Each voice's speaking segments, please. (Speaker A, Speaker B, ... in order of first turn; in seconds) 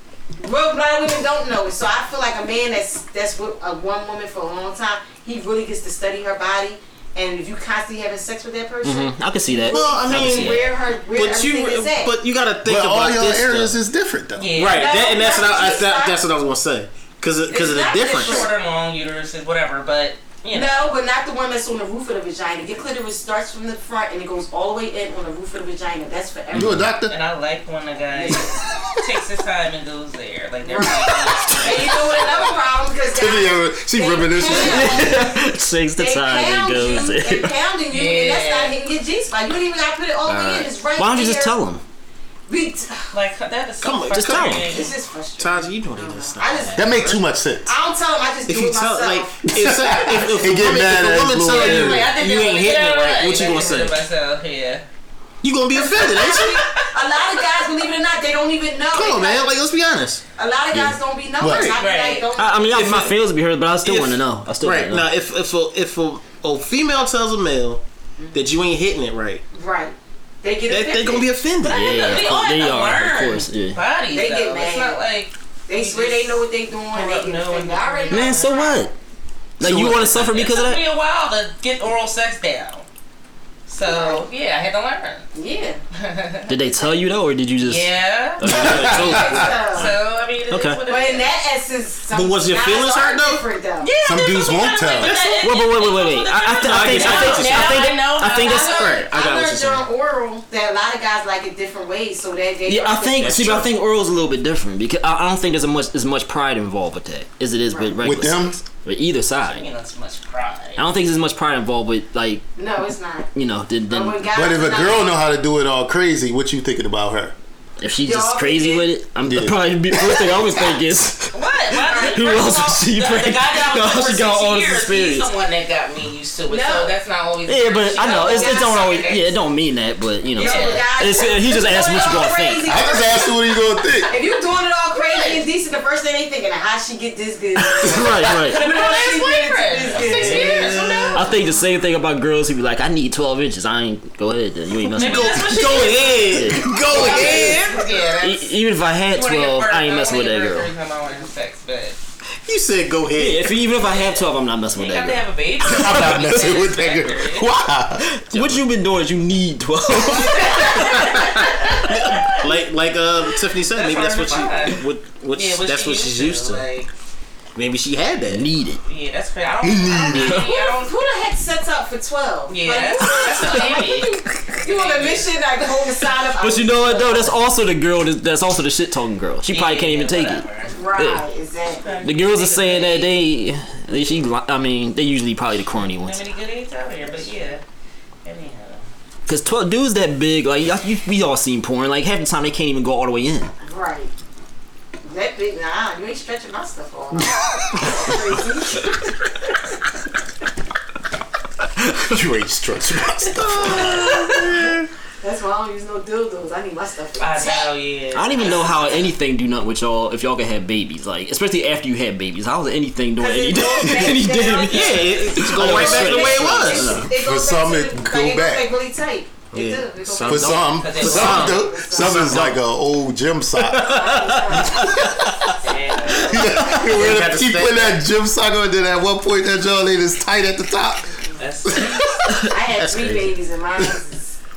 Speaker A: 0.4-12.1, 14.7-16.2, 17.5-18.5, 20.5-26.9, 28.1-28.5, 30.6-35.4, 36.0-41.5, 42.5-43.1, 44.7-47.0, 47.6-49.4, 55.9-59.5, 60.4-62.9, 68.2-68.4, 69.5-71.3, 74.1-75.0, 75.7-78.9, 83.8-84.3, 85.3-85.8, 88.8-90.0, 90.9-93.9, 97.4-103.4, 112.6-113.3, 113.9-115.1, 118.0-118.9, 121.8-122.3, 126.5-126.9, 128.0-128.8, 130.4-133.5, 134.1-141.6, 146.9-147.7, 169.9-177.4, 180.7-181.8, 193.6-194.1, 195.0-199.3, 205.2-207.7, 213.2-222.3, 223.9-224.9, 232.4-234.4
Speaker B: 8.8-10.6, 26.5-26.9, 34.5-37.5, 40.3-41.8, 44.1-44.7, 60.7-61.0, 62.4-65.1, 71.7-73.8, 78.1-78.9, 79.6-80.8, 86.5-89.9, 90.5-90.8, 95.4-99.8, 102.7-109.7, 110.8-112.4, 113.3-114.3, 117.8-125.3, 127.5-132.6, 137.8-138.6, 141.1-146.8, 148.2-150.7, 153.2-156.4, 158.1-161.3, 168.3-168.8, 170.1-170.5, 173.4-173.8, 176.4-180.4, 181.0-181.2, 182.0-186.2, 189.3-193.5, 208.1-217.1
Speaker C: 9.7-13.8, 14.6-18.5, 43.8-44.7, 45.4-47.2, 48.5-54.0, 55.4-56.5, 58.9-60.2, 62.7-63.1, 63.8-69.4, 70.7-72.2, 79.6-79.9, 88.5-89.9, 92.1-93.4, 95.0-95.4, 96.6-97.7, 103.2-103.7, 140.0-141.2, 145.0-148.0, 152.4-153.6, 158.3-158.6, 161.9-166.6, 167.5-168.5, 203.4-204.8, 214.5-217.1, 219.5-222.6, 223.6-225.2, 226.1-228.0, 232.6-233.4
Speaker D: 12.6-14.6, 26.5-27.1, 33.1-35.2, 46.8-47.7, 49.5-52.1, 61.4-61.8, 88.5-89.3, 94.0-95.2, 108.0-108.6, 114.3-117.3, 119.3-120.2, 132.6-134.1, 155.6-158.1, 169.6-170.2, 202.1-204.3, 217.2-218.7, 220.2-224.1, 224.7-225.3, 226.3-231.1
Speaker E: 14.4-15.4, 17.9-20.9, 27.1-32.7, 37.9-38.7, 43.1-44.9, 51.4-54.8, 55.8-56.9, 61.6-62.3, 71.7-78.8, 79.7-82.8, 83.7-85.2, 86.0-86.5, 87.6-88.5, 89.0-91.3, 93.8-99.0, 109.4-110.8, 121.3-129.4, 130.3-130.9, 135.0-135.4, 138.2-141.4, 144.9-148.5, 149.1-152.0, 153.8-157.5, 159.9-162.5, 163.7-164.8, 165.3-166.9, 168.8-170.9, 172.5-175.3, 179.4-180.7, 181.8-183.2, 186.0-187.6, 188.2-188.8, 207.2-209.1, 220.8-221.6, 225.6-226.5, 231.4-232.1